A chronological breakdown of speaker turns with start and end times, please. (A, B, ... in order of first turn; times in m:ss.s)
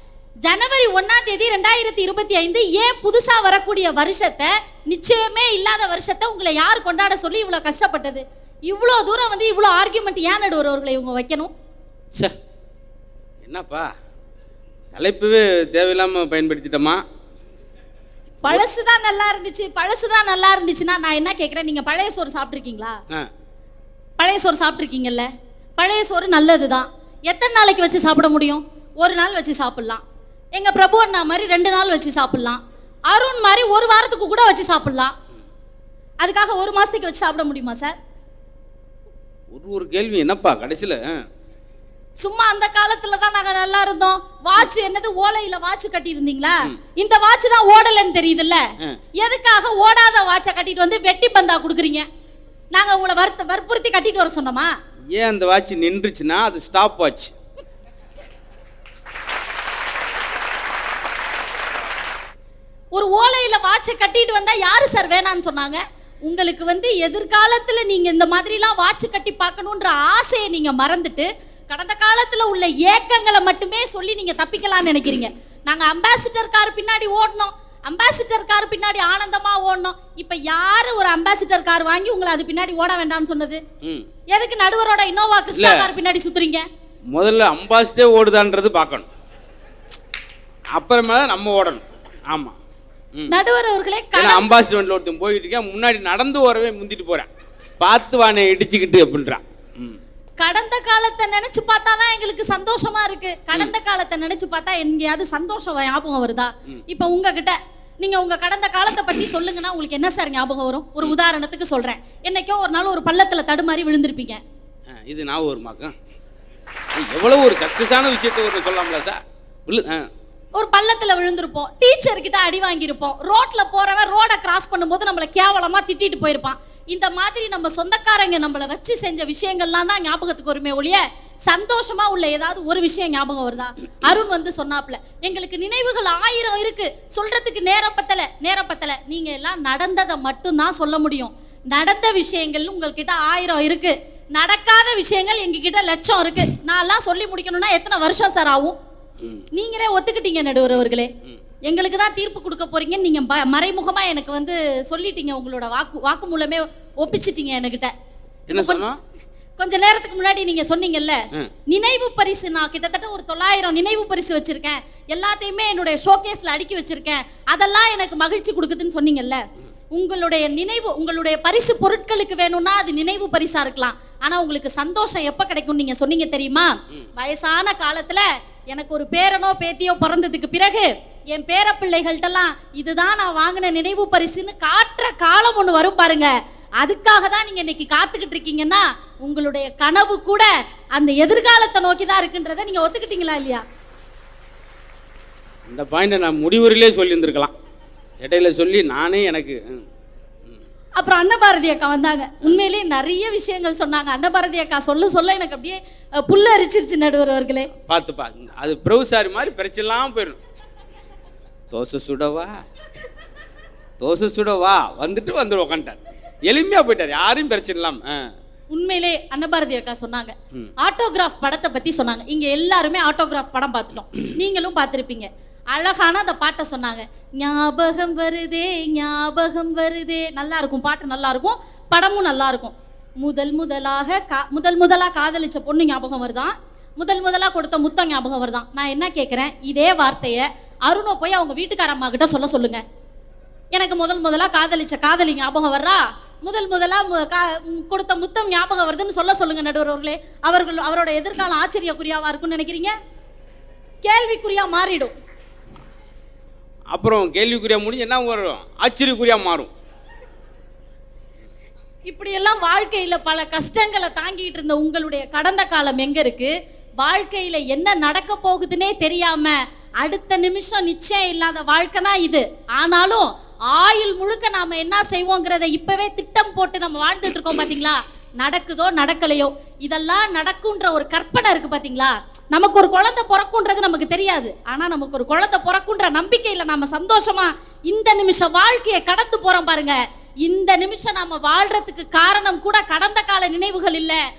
0:00.5-0:11.5 A
0:13.4-0:13.9 B
0:14.9-0:17.0 B
0:18.4-0:23.0 A
0:24.2-0:25.3 A
0:25.8-0:30.0 A
0:30.6-0:35.1 A
0:36.2-0:38.0 A
0:39.5-0:41.2 B
0:42.2-0:48.6 A
0:49.2-0:52.0 A
0:52.7-0:54.7 A
0:55.1-0:57.3 B
1:02.9-1:23.6 A
1:24.3-1:26.7 A
1:25.6-1:25.9 B
1:27.1-1:29.1 B
1:30.8-1:32.6 B
1:33.3-1:34.5 A
1:34.2-1:37.3 B
1:37.8-1:40.0 B
1:40.4-1:54.4 A
1:54.9-1:56.0 B
1:57.0-2:00.1 B
2:00.6-2:28.8 A
2:29.5-2:31.1 A
2:31.6-2:37.9 A
2:38.5-2:39.0 B
2:38.5-2:38.9 A
2:39.6-2:49.4 A
2:49.9-3:13.6 A
3:15.7-3:17.5 B
3:18.2-3:19.9 B
3:21.0-3:27.7 A
3:27.8-3:30.4 B
3:31.7-3:32.6 B
3:34.0-3:38.2 B
3:38.7-4:02.8 A
4:03.7-4:12.9 A
4:14.0-4:15.1 A
4:16.9-4:19.7 B
4:22.1-4:54.2 A